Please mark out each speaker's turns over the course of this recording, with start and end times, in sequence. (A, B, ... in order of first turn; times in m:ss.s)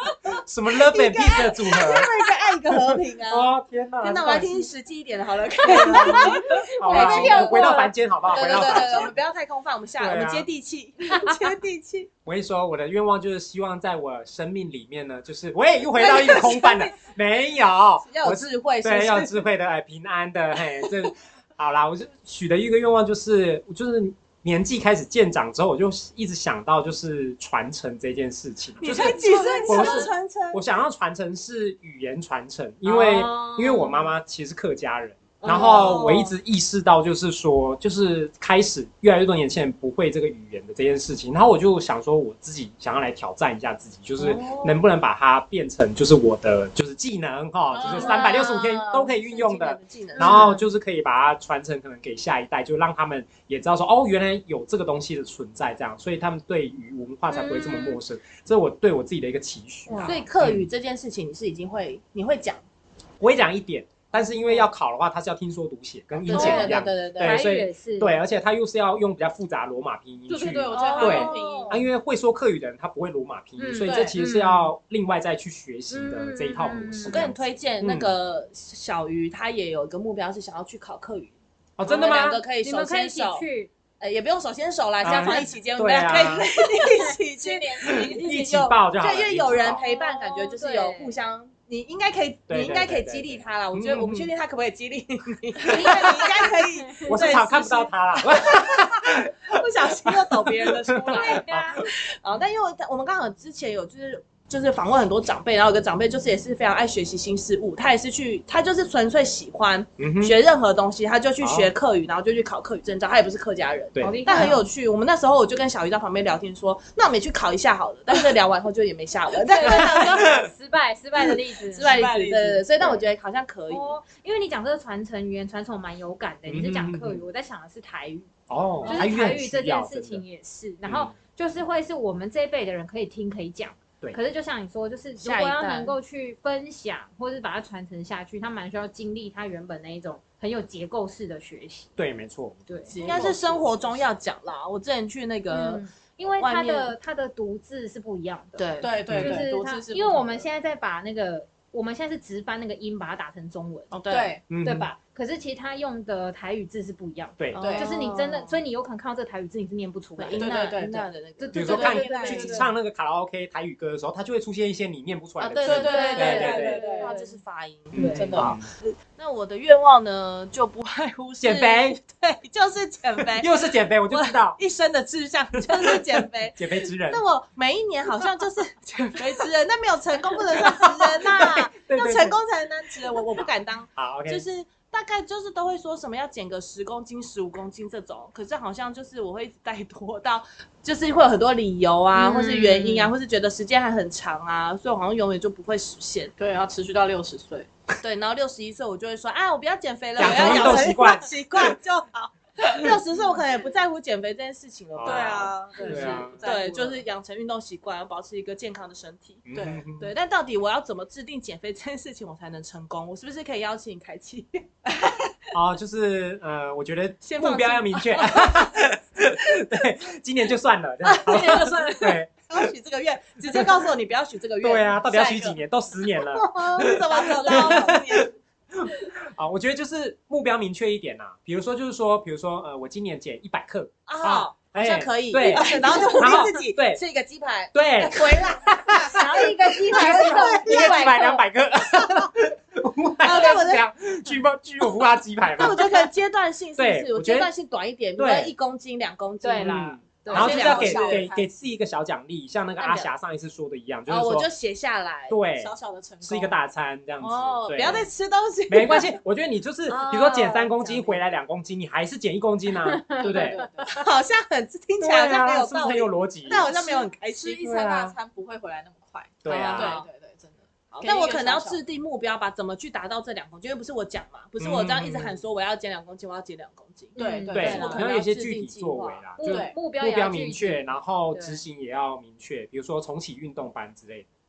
0:00.4-0:02.1 A
0:00.8-0:03.5 B
0:02.7-0:04.7 A
0:04.0-0:07.7 B
0:05.7-0:09.1 A
0:05.9-0:07.9 C
0:08.3-0:12.1 B
0:10.0-0:10.5 A
0:12.2-1:00.7 A
0:16.0-0:16.9 B
0:18.0-0:19.4 B
0:28.8-0:30.6 B
0:28.9-0:30.1 D
0:32.9-0:34.1 C
0:35.4-0:36.2 C
0:35.4-0:36.3 B
0:44.2-0:44.8 B
0:47.7-0:48.2 D
0:47.9-0:50.5 B
0:48.0-0:48.3 C
0:50.2-0:50.6 C
0:57.3-0:58.0 C
1:00.0-1:02.6 B
1:03.2-1:18.1 A
1:06.2-1:07.4 B
1:06.3-1:07.0 D
1:06.4-1:08.1 C
1:10.3-1:11.8 D
1:10.7-1:11.8 B
1:10.8-1:11.5 C
1:13.6-1:14.7 C
1:13.9-1:14.2 D
1:15.9-1:17.3 C
1:17.0-1:21.3 B
1:21.8-1:22.4 A
1:21.8-1:23.4 B
1:21.9-1:23.7 C
1:24.0-2:00.4 B
1:25.0-1:26.5 A
1:27.4-1:28.2 D
1:28.0-1:29.8 A
1:29.6-1:31.1 C
1:32.5-1:34.3 A
1:35.7-1:36.4 A
1:35.8-1:36.1 C
1:36.9-1:37.1 C
1:37.0-1:39.4 A
1:40.2-1:41.7 A
1:41.0-1:41.8 C
1:50.0-1:50.3 A
1:51.4-1:51.7 A
1:53.9-1:54.6 A
1:54.0-1:54.6 C
1:59.5-2:02.0 C
2:01.7-2:03.9 B
2:01.8-2:02.6 D
2:02.8-2:03.1 A
2:03.7-2:08.3 C
2:06.5-2:07.2 A
2:08.5-2:10.2 A
2:08.8-2:21.9 C
2:10.8-2:11.1 A
2:15.2-2:16.0 B
2:22.0-2:22.6 A
2:22.7-2:23.0 C
2:22.9-2:24.0 D
2:23.0-2:25.8 B
2:25.5-2:33.9 C
2:26.4-2:26.9 B
2:28.6-2:28.9 B
2:28.8-2:30.4 D
2:29.1-2:29.4 A
2:33.9-2:34.3 B
2:34.1-2:34.4 D
2:34.5-2:34.9 A
2:34.6-2:42.7 C
2:37.4-2:37.6 A
2:37.5-2:38.6 B
2:37.6-2:37.9 D
2:40.2-2:42.5 B
2:40.4-2:41.1 D
2:41.5-2:46.8 A
2:41.6-2:42.6 D
2:45.4-2:53.5 B
2:45.6-2:47.2 D
2:45.7-2:47.4 C
2:47.9-2:48.7 A
2:48.0-2:48.2 C
2:48.0-2:48.5 D
2:51.4-2:52.0 A
2:53.3-2:54.6 A
2:54.1-3:16.3 B
2:55.7-2:56.0 A
2:56.6-2:57.2 A
3:00.6-3:02.4 A
3:03.4-3:04.4 A
3:12.1-3:13.1 C
3:16.4-3:17.7 D
3:18.0-3:29.4 B
3:20.2-3:21.7 A
3:24.9-3:26.4 A
3:25.0-3:27.0 D
3:29.4-3:30.1 A
3:29.5-3:29.8 D
3:30.0-3:35.5 B
3:35.5-3:42.4 A
3:37.2-3:38.7 B
3:41.0-3:48.3 B
3:41.3-3:41.8 D
3:43.5-3:43.9 A
3:44.6-3:48.2 A
3:47.1-3:48.0 D
3:48.8-3:57.0 A
3:54.1-4:01.4 B
3:55.4-3:56.4 D
3:57.7-4:06.1 A
3:59.1-4:01.4 C
4:03.2-4:03.8 B
4:05.5-4:11.3 B
4:06.8-4:07.5 A
4:08.2-4:08.5 A
4:09.4-4:10.7 C
4:09.6-4:14.5 A
4:10.3-4:11.5 D
4:12.8-4:13.1 B
4:14.1-4:15.4 B
4:15.3-4:15.7 A
4:15.6-4:16.6 D
4:16.2-4:18.0 A
4:17.2-4:19.1 B
4:18.7-4:23.6 A
4:19.9-4:21.2 B
4:22.9-4:23.7 C
4:23.2-4:24.0 D
4:23.9-4:27.6 B
4:25.0-4:26.7 A
4:26.5-4:31.8 D
4:27.6-4:28.1 A
4:29.4-4:30.0 A
4:29.5-4:30.0 B
4:30.9-4:39.2 B
4:34.6-4:35.4 A
4:37.2-4:38.0 D
4:37.2-4:38.0 C
4:37.5-4:44.3 A
4:39.4-4:40.9 C
4:39.5-4:39.7 D